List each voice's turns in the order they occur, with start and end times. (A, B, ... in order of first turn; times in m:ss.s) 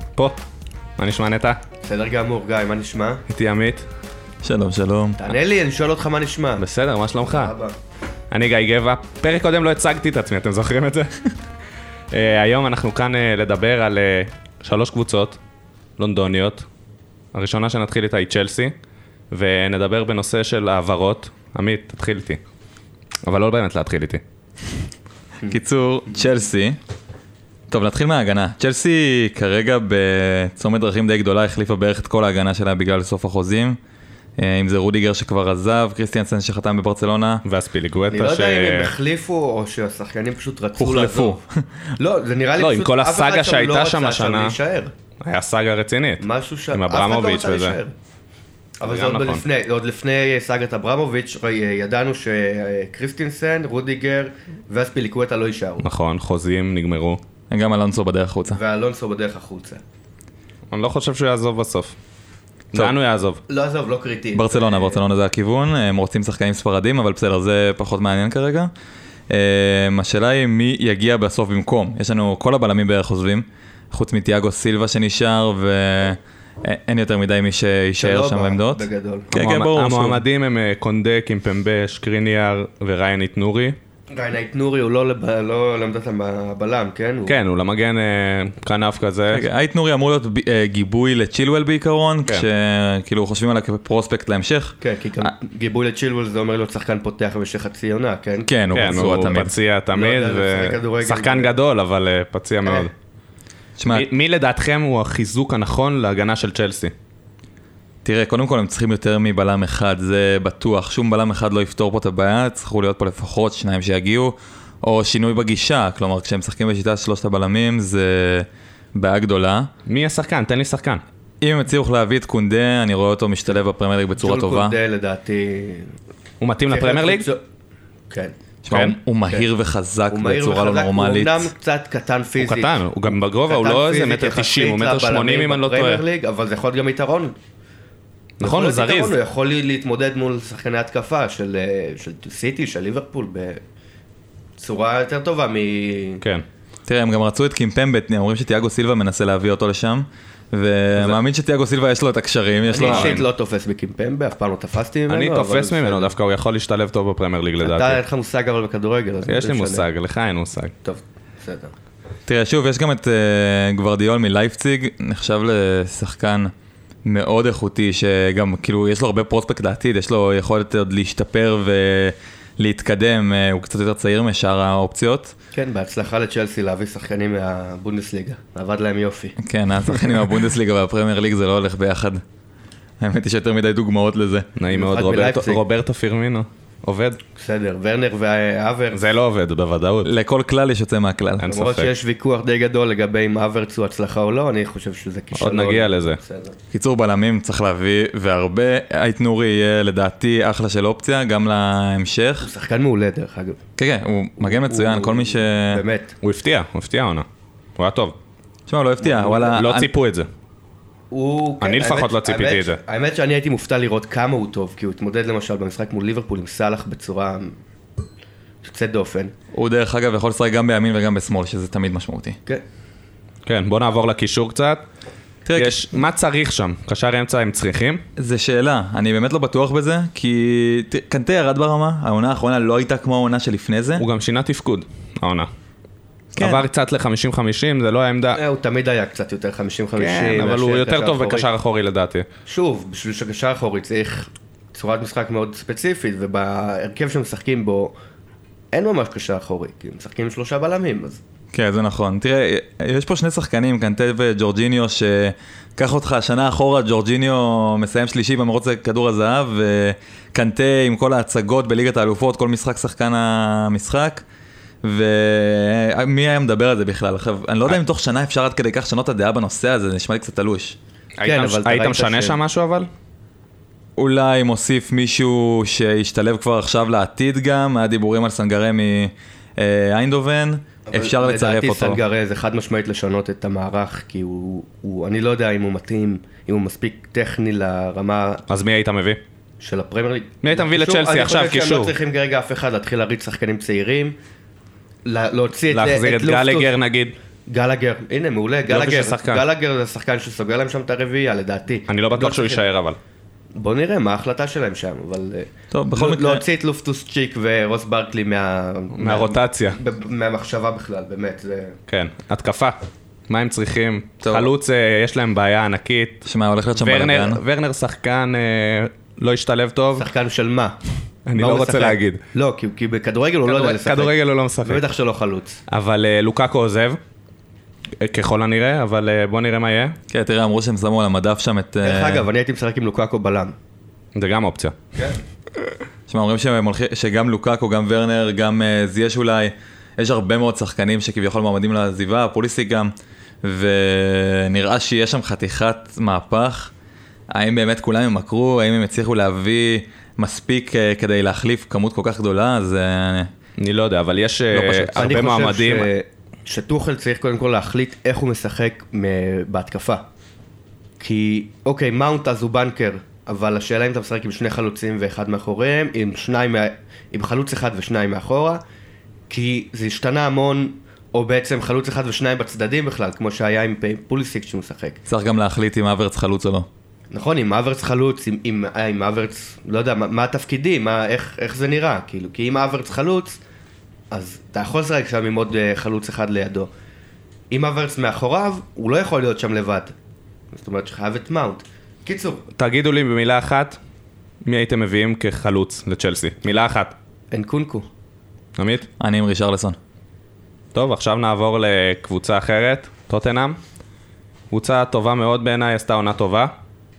0:01.0-0:01.6 A
0:01.8-0:03.2 B
0:03.3-0:03.8 A
0:04.4-0:05.2 C
0:05.2-0:06.6 B
0:06.6-0:07.5 A
0:07.2-0:07.8 B
0:08.3-0:11.2 A
0:12.1-0:15.4 A
0:16.0-0:16.6 A
0:17.3-0:18.7 A
0:19.3-0:22.4 A
0:23.2-0:24.2 A
0:25.5-0:26.8 C
0:27.7-0:33.8 C
0:34.4-0:37.4 C
0:37.4-0:38.9 A
0:38.1-0:41.4 B
0:40.8-0:41.6 C
0:42.0-0:44.9 B
0:42.6-0:44.6 A
0:45.2-0:47.8 A
0:46.2-0:48.0 B
0:48.8-0:55.9 B
0:48.8-0:49.4 A
0:55.8-0:57.2 A
0:57.5-0:58.6 C
0:58.5-0:59.8 B
1:00.7-1:02.0 A
1:02.7-1:03.4 A
1:03.5-1:05.0 B
1:04.4-1:08.7 C
1:09.3-1:20.2 C
1:18.0-1:19.3 B
1:19.3-1:23.8 A
1:24.1-1:27.4 B
1:27.3-1:29.5 A
1:29.3-1:35.3 C
1:34.8-1:41.6 B
1:38.5-1:39.5 C
1:38.7-1:42.9 A
1:43.8-1:44.1 C
1:43.9-1:46.9 A
1:48.0-1:59.7 C
1:59.9-2:01.0 A
2:01.4-2:04.8 C
2:04.2-2:05.9 B
2:06.4-2:07.3 A
2:06.7-2:07.4 B
2:08.1-2:08.4 B
2:08.6-2:11.5 C
2:08.7-2:09.0 A
2:10.1-2:12.8 B
2:12.4-2:16.0 A
2:13.5-2:17.3 B
2:18.4-2:19.2 A
2:18.4-2:23.6 B
2:24.6-2:26.2 B
2:26.9-2:33.2 C
2:32.7-2:36.1 B
2:32.8-2:33.2 A
2:35.1-2:38.0 A
2:37.6-2:39.9 B
2:39.3-2:40.7 A
2:40.8-2:41.7 B
2:42.3-2:46.5 C
2:47.0-2:55.3 C
2:55.5-2:59.4 B
2:59.4-3:02.2 C
3:03.0-3:04.5 C
3:04.6-3:07.2 A
3:04.7-3:05.6 B
3:07.4-3:09.0 B
3:08.9-3:10.1 A
3:10.0-3:11.5 C
3:11.4-3:11.9 A
3:11.5-3:16.6 B
3:15.4-3:16.2 A
3:16.7-3:22.5 C
3:22.4-3:23.6 B
3:23.8-3:25.8 C
3:24.4-3:26.1 B
3:26.2-3:27.3 A
3:27.8-3:28.2 A
3:28.7-3:29.9 C
3:29.0-3:29.6 B
3:29.5-3:30.3 A
3:31.1-3:37.6 B
3:31.6-3:32.8 A
3:38.6-3:39.3 B
3:39.5-3:42.4 C
3:43.5-3:44.8 A
3:45.4-3:45.9 C
3:45.6-3:48.0 A
3:48.2-3:54.0 C
3:54.0-3:55.5 A
3:56.4-3:56.6 C
3:56.4-3:58.4 A
3:58.3-4:01.5 B
4:00.0-4:02.3 A
4:02.5-4:07.9 B
4:08.7-4:11.2 B
4:11.5-4:24.2 C
4:24.8-4:30.8 C
4:31.2-4:32.9 A
4:31.2-4:32.4 B
4:34.0-4:42.0 C
4:40.9-4:48.4 B
4:48.5-4:49.2 A
4:49.6-4:54.2 B
4:50.4-4:52.0 A
4:55.0-4:56.8 B
4:55.7-4:57.1 A
4:57.5-5:02.6 B
4:58.7-4:59.4 A
5:01.9-5:03.0 A
5:03.6-5:11.8 B
5:05.7-5:06.4 C
5:08.9-5:09.8 A
5:11.9-5:12.8 A
5:13.3-5:16.2 A
5:14.2-5:14.5 C
5:16.2-5:17.4 C
5:16.8-5:20.1 A
5:20.0-5:20.8 B
5:21.3-5:22.2 A
5:21.4-5:25.6 B
5:23.5-5:24.8 A
5:25.7-5:27.0 A
5:28.0-5:30.0 A
5:30.1-5:32.3 C
5:31.8-5:33.6 B
5:34.2-5:34.8 A
5:36.1-5:42.9 C
5:43.4-5:46.7 C
5:47.3-5:53.3 C
5:53.6-5:55.9 A
5:54.5-5:55.1 C
5:55.0-6:00.0 B
6:01.0-6:08.6 B
6:09.3-6:15.0 B
6:15.1-6:16.7 C
6:17.1-6:23.4 B
6:24.1-6:26.7 B
6:27.5-6:29.9 B
6:30.5-6:32.4 B
6:32.6-6:33.8 A
6:34.4-6:36.9 A
6:37.3-6:37.9 B
6:38.6-6:38.9 A
6:39.0-6:39.8 C
6:40.7-6:43.6 A
6:44.5-6:46.5 A